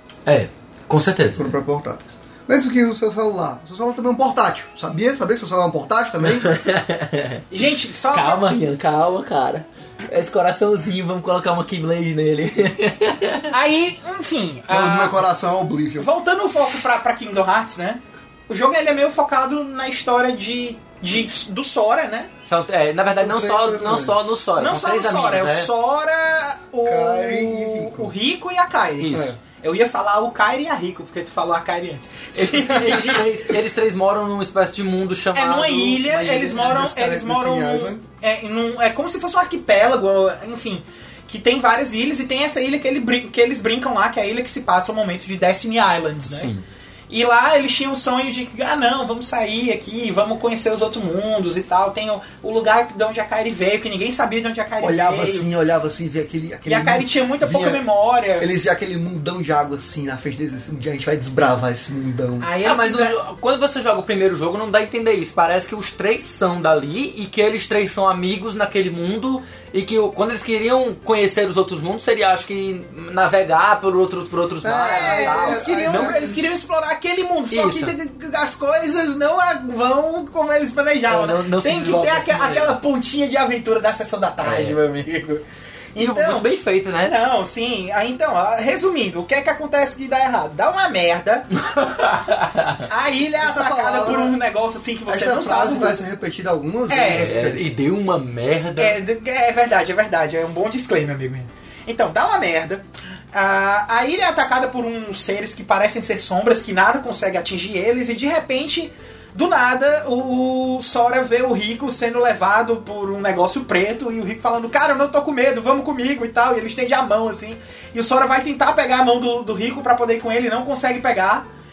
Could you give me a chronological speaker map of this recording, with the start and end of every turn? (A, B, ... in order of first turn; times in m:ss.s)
0:00.3-0:01.5 A
0:01.4-0:06.6 B
0:06.3-0:07.4 A
0:07.5-0:08.5 C
0:08.1-0:13.5 A
0:13.5-0:15.2 C
0:14.7-0:16.1 B
0:16.0-0:22.3 C
0:22.4-0:25.7 A
0:23.2-0:24.2 B
0:24.6-0:33.3 C
0:26.8-0:28.1 B
0:29.0-0:29.4 A
0:29.1-0:29.4 B
0:32.4-0:36.7 A
0:32.8-0:33.1 B
0:35.4-0:46.5 C
0:36.5-0:38.0 B
0:46.2-0:46.6 A
0:47.1-0:55.5 C
0:54.8-0:57.8 B
0:56.7-0:58.5 C
0:58.4-1:02.5 B
1:02.4-1:03.2 C
1:02.6-1:16.2 A
1:14.6-1:16.4 B
1:14.8-1:25.4 C
1:17.5-1:17.9 A
1:21.1-1:22.8 A
1:24.4-1:24.8 A
1:26.0-1:26.4 C
1:26.0-1:27.1 A
1:27.0-1:31.5 C
1:31.6-1:32.9 A
1:32.9-1:36.0 C
1:33.4-1:34.4 B
1:35.1-1:37.7 B
1:36.9-1:37.3 C
1:37.1-1:39.0 A
1:38.8-2:01.5 C